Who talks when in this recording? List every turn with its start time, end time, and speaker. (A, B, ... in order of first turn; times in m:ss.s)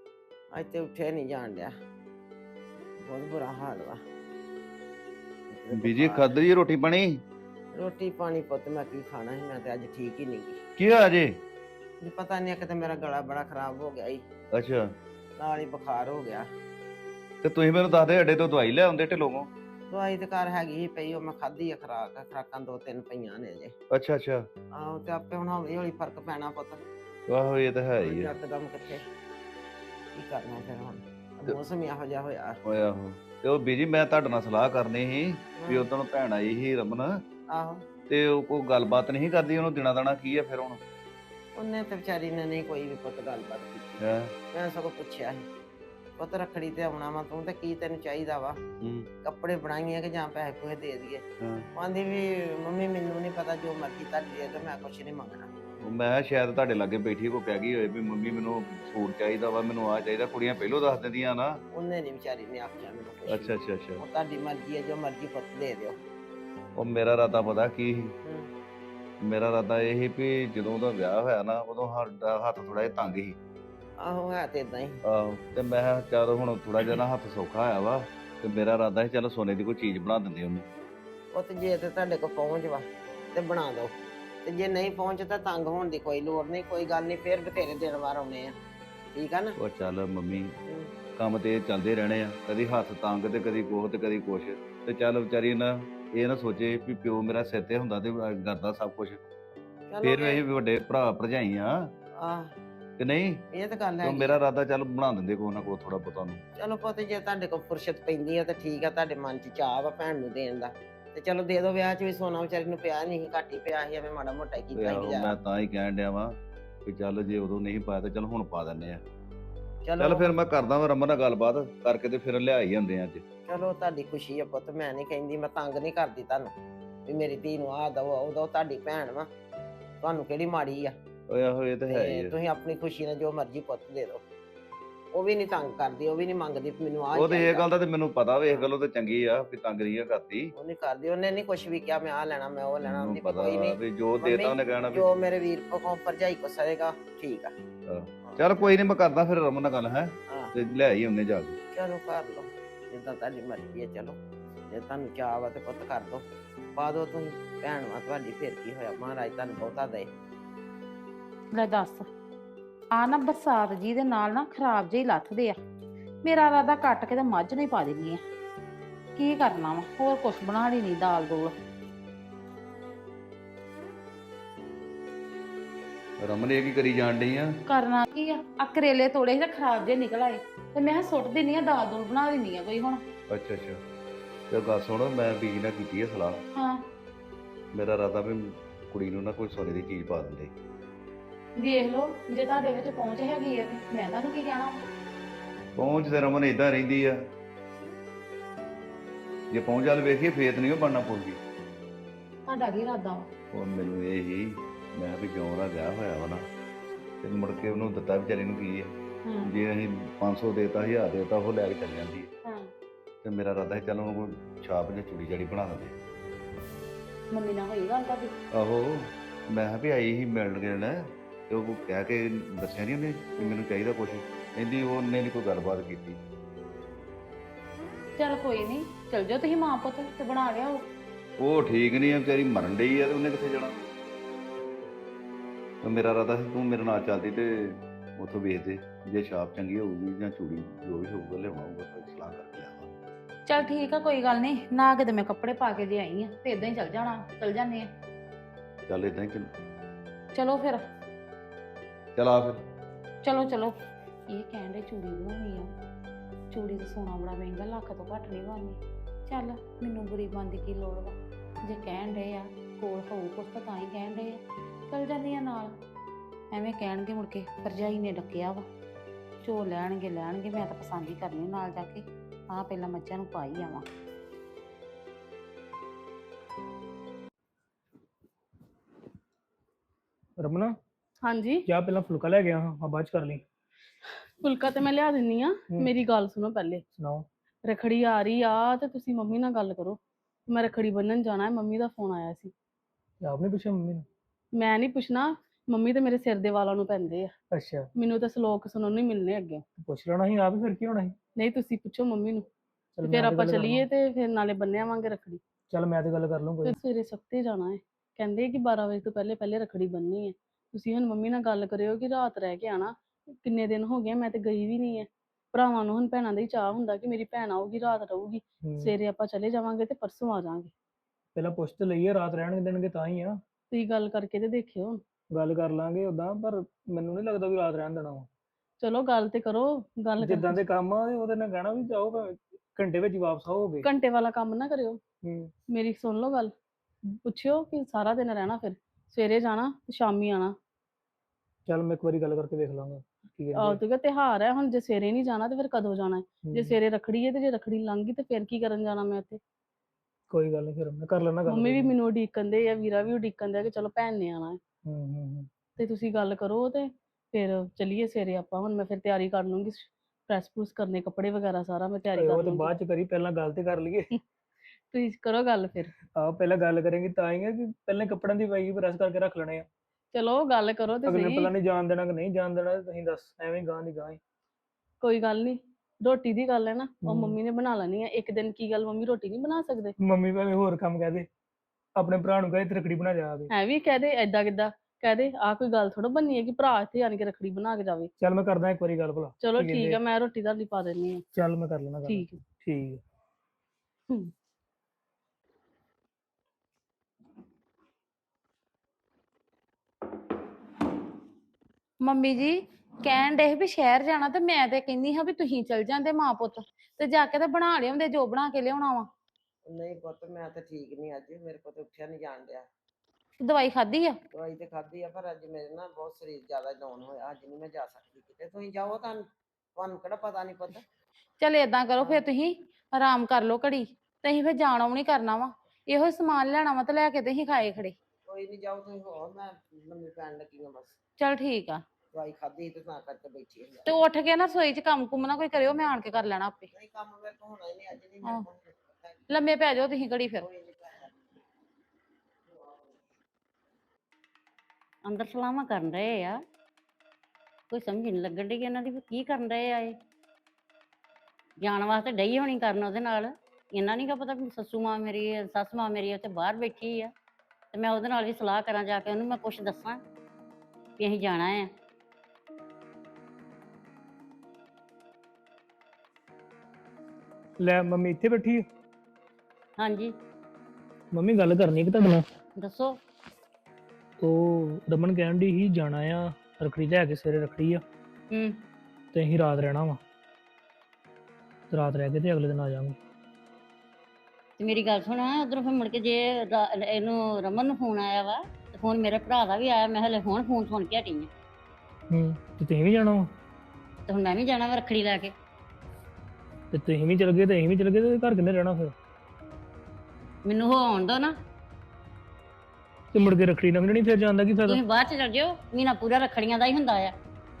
0:00.5-0:01.7 A
0:03.0-0:04.0 A
0:05.5-0:06.3 A
0:05.7-0:07.2 B
0:07.7-0:10.6 A
0:10.8-0:11.3 B
0:12.0-0:14.2 A
0:14.5-0:14.9 B
0:15.4-0:16.4 A
0:17.4-0:19.5 B
0:19.9-0:23.7 A
0:23.9-0:24.4 B
0:24.7-0:26.8 A
0:27.3-0:28.3 B
0:28.0-0:29.0 A
0:30.1-0:32.6 A
0:32.6-0:37.1 B
0:35.6-0:35.8 A
0:37.5-0:37.8 A
0:38.1-0:40.8 B
0:41.6-0:45.4 A
0:44.0-0:44.3 B
0:46.2-0:48.6 A
0:48.8-0:49.1 B
0:49.2-0:51.2 A
0:51.8-0:55.5 A
0:55.8-1:01.5 B
1:01.7-1:06.0 A
1:03.3-1:04.0 B
1:06.8-1:08.1 B
1:09.2-1:13.4 B
1:14.0-1:15.0 A
1:15.1-1:20.7 B
1:21.3-1:23.9 A
1:24.4-1:28.5 A
1:29.1-1:29.6 A
1:29.6-1:30.5 B
1:31.2-1:39.2 B
1:39.9-1:40.4 A
1:40.0-1:41.7 B
1:42.2-1:42.5 A
1:43.0-1:43.4 B
1:43.5-1:44.4 A
1:44.0-1:46.4 B
1:46.6-1:55.4 A
1:54.8-1:56.3 B
1:56.8-1:59.0 B
1:59.8-2:00.3 A
2:00.0-2:03.2 B
2:03.5-2:06.5 A
2:07.0-2:09.3 A
2:10.0-2:10.9 A
2:11.3-2:12.3 B
2:11.9-2:14.2 A
2:15.1-2:17.7 A
2:17.1-2:20.5 B
2:20.6-2:27.5 A
2:22.8-2:25.0 B
2:27.9-2:31.6 B
2:28.3-2:28.7 A
2:31.7-2:36.2 A
2:36.8-2:40.1 A
2:41.5-2:42.1 C
2:42.9-2:45.6 C
2:46.2-2:48.2 C
2:49.1-2:51.6 C
2:56.2-2:57.5 B
2:57.7-3:03.0 C
3:03.3-3:03.8 B
3:04.5-3:06.4 B
3:06.5-3:06.8 C
3:07.7-3:10.5 B
3:11.6-3:14.8 C
3:15.8-3:17.2 B
3:19.5-3:21.4 B
3:22.4-3:23.3 C
3:23.5-3:26.4 B
3:27.2-3:28.9 B
3:29.2-3:29.5 C
3:29.4-3:32.3 B
3:32.4-3:32.7 C
3:33.2-3:35.9 B
3:37.3-3:38.4 C
3:38.6-3:46.2 B
3:48.2-3:50.8 C
3:51.4-3:53.9 B
3:55.8-4:02.9 B
4:03.4-4:07.9 C
4:08.9-4:09.5 B
4:10.3-4:10.8 C
4:12.1-4:12.6 B
4:13.2-4:13.7 C
4:14.3-4:15.7 C
4:16.5-4:25.7 C
4:26.5-4:28.6 C
4:29.4-4:33.8 C
4:40.4-4:40.7 D
4:41.2-4:41.6 E
4:41.7-4:43.4 D
4:44.4-4:46.8 E
4:46.9-4:47.2 D
4:47.6-4:52.5 E
4:53.2-4:54.0 D
4:54.5-4:57.3 E
4:57.5-4:57.9 D
4:58.0-4:59.6 E
4:59.8-5:01.2 D
5:01.4-5:02.5 E
5:03.0-5:03.8 D
5:03.0-5:05.4 E
5:05.7-5:06.7 D
5:06.6-5:20.7 E
5:18.6-5:18.9 D
5:21.3-5:23.4 D
5:23.7-5:25.0 E
5:25.3-5:28.3 D
5:28.8-5:30.6 E
5:30.2-5:33.9 D
5:33.8-5:35.0 E
5:35.2-5:35.5 D
5:35.7-5:36.5 E
5:37.2-5:40.5 E
5:41.6-5:43.8 D
5:43.5-5:49.4 E
5:46.4-5:46.7 D
5:50.3-5:51.9 D
5:51.4-5:54.6 E
5:54.8-5:55.5 D
5:55.8-6:02.7 E
6:02.2-6:04.1 D
6:04.9-6:05.9 E
6:06.1-6:09.6 D
6:10.1-6:11.5 E
6:11.0-6:14.2 D
6:15.0-6:19.9 E
6:17.0-6:17.4 D
6:20.0-6:21.3 D
6:22.0-6:23.5 D
6:23.5-6:28.1 E
6:28.2-6:30.0 D
6:29.4-6:31.2 E
6:31.3-6:33.0 D
6:32.0-6:32.4 E
6:42.0-6:49.1 C
6:49.6-6:52.6 A
6:53.4-6:54.2 C
6:54.3-7:00.8 A
7:01.4-7:07.9 C
7:08.2-7:11.0 A
7:11.2-7:11.8 C
7:12.1-7:13.9 A
7:13.8-7:16.7 C
7:16.7-7:19.3 A
7:19.3-7:20.4 C
7:20.4-7:21.2 A
7:22.5-7:22.9 A
7:25.0-7:26.4 F
7:27.7-7:29.9 F
7:31.6-7:37.1 F
7:37.7-7:40.0 F
7:41.0-7:41.7 F
7:47.6-7:48.6 D
7:49.8-7:50.1 F
7:51.1-7:52.2 D
7:52.6-7:53.0 F
7:54.2-7:57.8 D
7:58.3-7:58.6 F
7:59.1-8:00.0 D
8:01.7-8:03.0 D
8:04.6-8:11.3 F
8:12.1-8:13.3 D
8:14.1-8:15.3 F
8:16.7-8:18.9 D
8:20.4-8:21.3 F
8:23.1-8:24.8 D
8:24.7-8:27.1 F